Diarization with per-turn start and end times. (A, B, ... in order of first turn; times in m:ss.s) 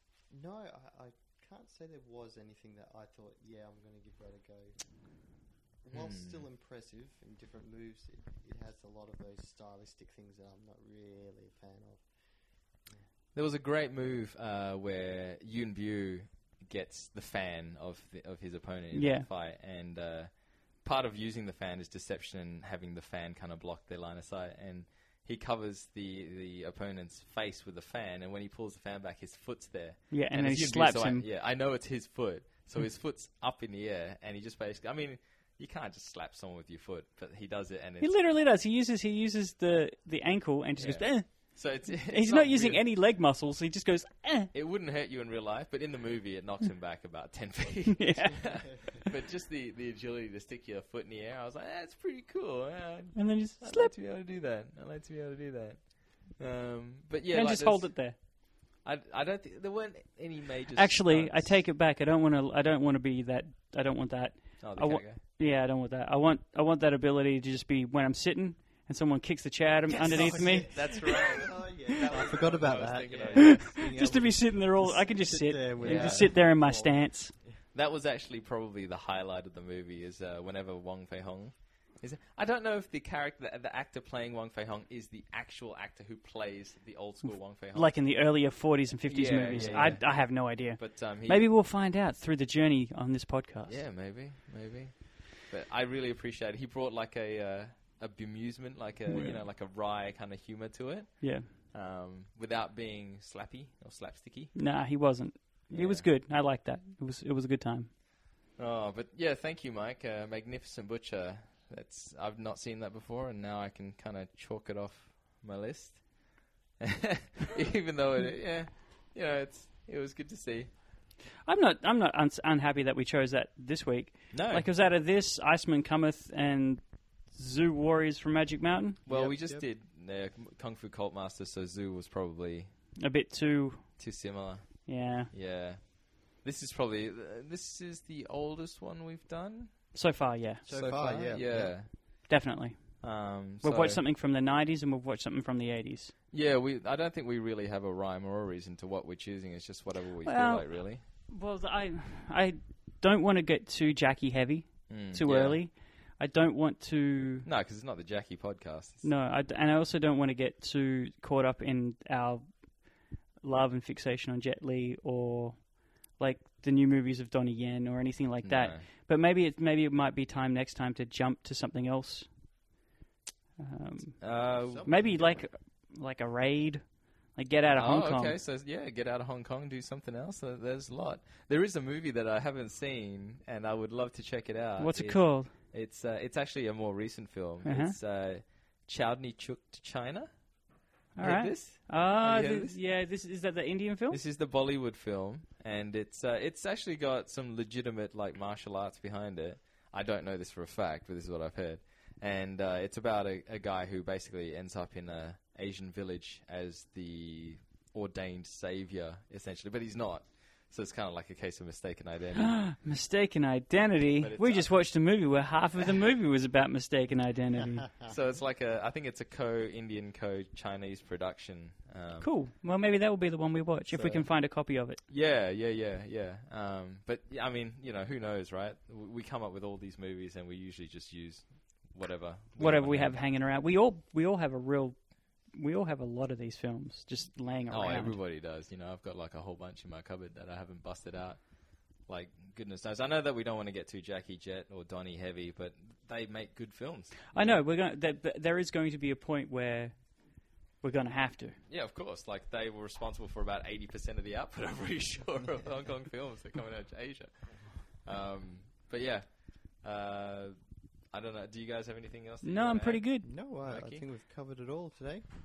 0:00.3-0:04.8 A
0:05.8-0:12.1 A
0:05.9-0:06.4 B
0:13.3-0:38.1 B
0:18.9-0:19.3 C
0:30.1-0:31.2 C
0:38.0-0:44.5 C
0:40.8-0:42.8 B
0:44.5-0:58.2 B
0:48.0-0:49.0 C
0:53.1-0:53.9 C
0:57.3-0:58.2 C
0:58.8-1:01.6 B
1:00.7-1:10.9 C
1:04.6-1:05.2 B
1:09.9-1:13.7 B
1:10.1-1:17.5 A
1:13.3-1:17.3 C
1:15.8-1:16.4 B
1:17.7-1:28.0 B
1:27.2-1:33.8 C
1:29.1-1:31.5 B
1:29.5-1:29.9 A
1:33.7-1:44.5 B
1:39.1-1:39.4 C
1:41.2-1:41.5 C
1:44.5-1:47.9 C
1:45.7-1:46.1 B
1:48.6-2:00.7 B
2:01.4-2:09.0 C
2:04.3-2:04.7 B
2:09.0-2:12.7 B
2:09.1-2:09.6 A
2:13.0-2:14.0 C
2:14.0-2:19.9 B
2:14.8-2:15.3 C
2:19.9-2:20.6 C
2:20.6-2:21.7 A
2:20.7-2:21.9 B
2:22.3-2:26.1 C
2:23.0-2:24.0 B
2:26.3-2:31.0 B
2:30.2-2:37.4 C
2:34.9-2:35.6 B
2:37.4-2:39.1 B
2:39.0-2:42.6 C
2:43.4-2:52.3 C
2:48.4-2:48.8 B
2:53.6-2:58.4 C
2:54.2-2:55.1 B
2:54.6-2:55.4 A
2:57.7-3:10.3 B
3:04.8-3:05.5 C
3:07.6-3:07.9 C
3:11.2-3:12.8 B
3:11.2-3:14.2 C
3:14.1-3:32.6 B
3:32.4-3:37.9 C
3:34.2-3:35.1 B
3:38.0-3:42.3 B
3:42.2-3:45.0 C
3:43.9-3:44.2 B
3:45.1-3:53.1 B
3:52.6-3:55.0 C
3:55.5-3:58.2 C
3:57.7-4:07.6 B
4:07.3-4:10.1 C
4:10.8-4:11.6 C
4:11.7-4:20.5 B
4:21.1-4:23.0 B
4:22.4-4:23.3 C
4:23.2-4:25.2 A
4:23.6-4:24.0 B